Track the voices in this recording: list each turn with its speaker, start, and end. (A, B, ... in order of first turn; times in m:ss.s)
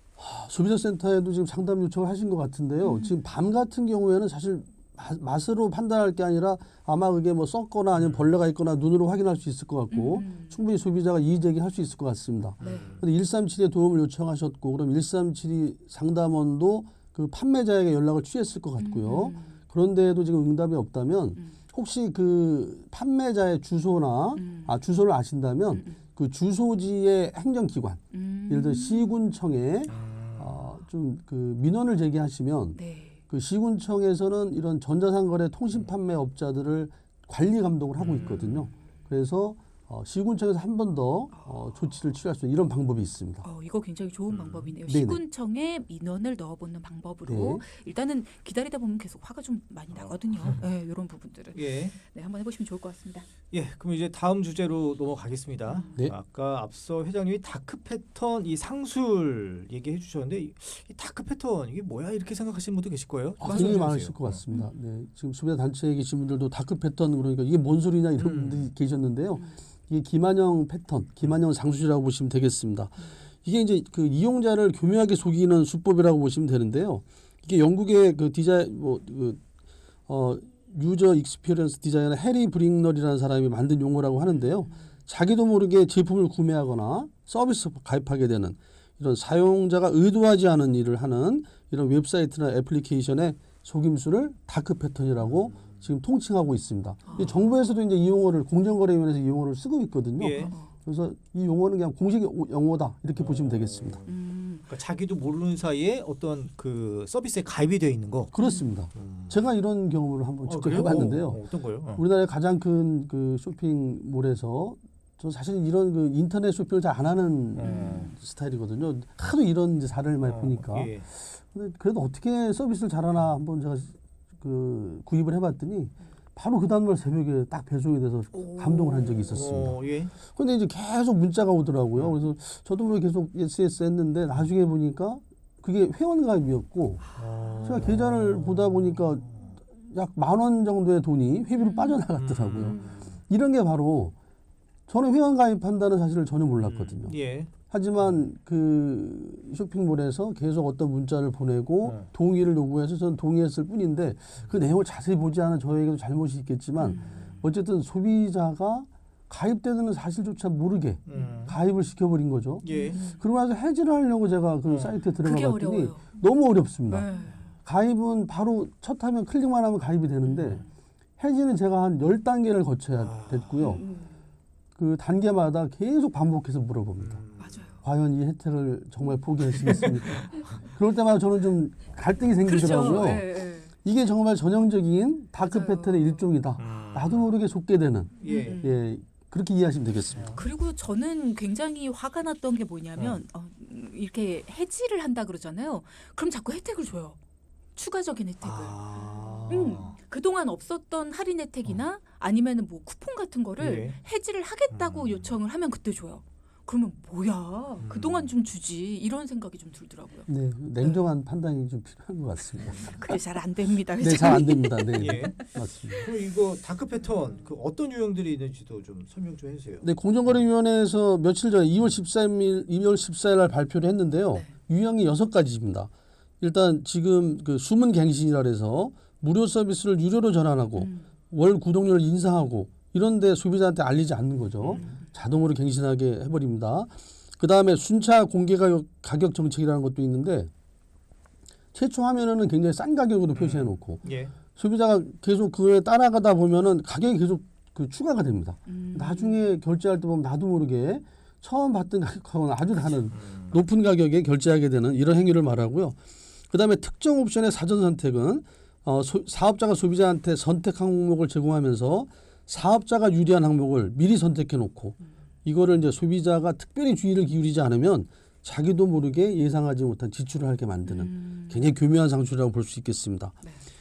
0:00.2-0:32.8 A
0:02.8-0:03.2 B
0:08.0-0:08.2 C
0:09.9-0:10.6 B
0:12.6-0:13.1 C
0:12.6-0:12.9 B
0:18.8-0:19.6 B
0:24.4-0:24.7 B
0:25.7-0:26.0 B
0:28.1-0:29.2 B
0:29.9-0:30.6 C
0:32.8-0:33.2 B
0:33.3-0:43.4 A
0:38.0-0:38.7 C
0:41.3-0:41.8 B
0:43.4-0:53.3 B
0:44.3-0:44.7 C
0:44.9-0:45.2 A
0:47.3-0:47.6 A
0:50.0-0:50.6 C
0:51.6-0:52.0 C
0:53.5-1:04.4 C
0:55.7-0:56.0 B
1:03.4-1:19.4 A
1:03.4-1:03.8 B
1:08.2-1:08.7 C
1:20.1-1:44.0 A
1:35.3-1:35.8 C
1:37.1-1:37.3 B
1:40.2-1:40.6 C
1:40.4-1:40.7 B
1:43.2-1:44.2 C
1:44.1-1:44.7 B
1:44.7-1:48.3 C
1:48.3-1:51.4 A
1:48.4-1:48.7 B
1:49.0-1:49.4 C
1:50.4-1:52.0 C
1:52.0-2:09.8 A
1:57.6-1:58.1 C
1:57.6-1:58.2 B
2:00.2-2:01.0 C
2:08.3-2:09.4 B
2:09.3-2:10.1 C
2:10.3-2:17.0 A
2:17.2-2:19.6 C
2:17.6-2:19.3 A
2:19.8-2:24.2 A
2:21.6-2:22.0 B
2:22.2-2:23.2 C
2:24.9-2:27.2 A
2:26.6-2:27.5 C
2:27.7-2:47.1 A
2:36.8-2:37.4 B
2:41.1-2:41.6 C
2:41.1-2:41.5 B
2:42.6-2:43.0 C
2:42.7-2:43.2 B
2:44.7-2:45.0 C
2:45.2-2:46.1 B
2:46.9-2:47.5 B
2:47.6-2:50.6 A
2:50.2-2:50.6 B
2:51.2-2:53.8 A
2:52.9-2:53.7 C
2:53.6-2:54.2 B
2:54.8-2:57.2 A
2:57.0-2:57.6 C
2:57.4-2:57.8 B
2:57.8-3:10.4 A
2:59.7-3:00.5 C
3:02.4-3:03.7 B
3:05.4-3:06.3 B
3:06.6-3:07.2 C
3:08.2-3:08.6 C
3:08.2-3:08.8 B
3:10.1-3:10.4 C
3:10.4-3:17.2 B
3:17.8-3:30.3 B
3:18.4-3:20.0 C
3:23.6-3:24.0 C
3:24.7-3:25.3 C
3:27.8-3:28.3 C
3:30.3-3:33.2 A
3:32.6-3:35.3 B
3:34.0-3:36.1 A
3:35.0-3:39.8 C
3:39.8-3:45.9 A
3:46.4-4:00.5 A
3:50.8-3:51.0 B
3:54.6-3:54.9 C
4:01.7-4:04.0 A
4:03.3-4:04.3 C
4:04.5-4:16.0 A
4:08.7-4:09.4 B
4:13.1-4:13.6 C
4:16.5-4:33.4 A
4:30.9-4:31.6 B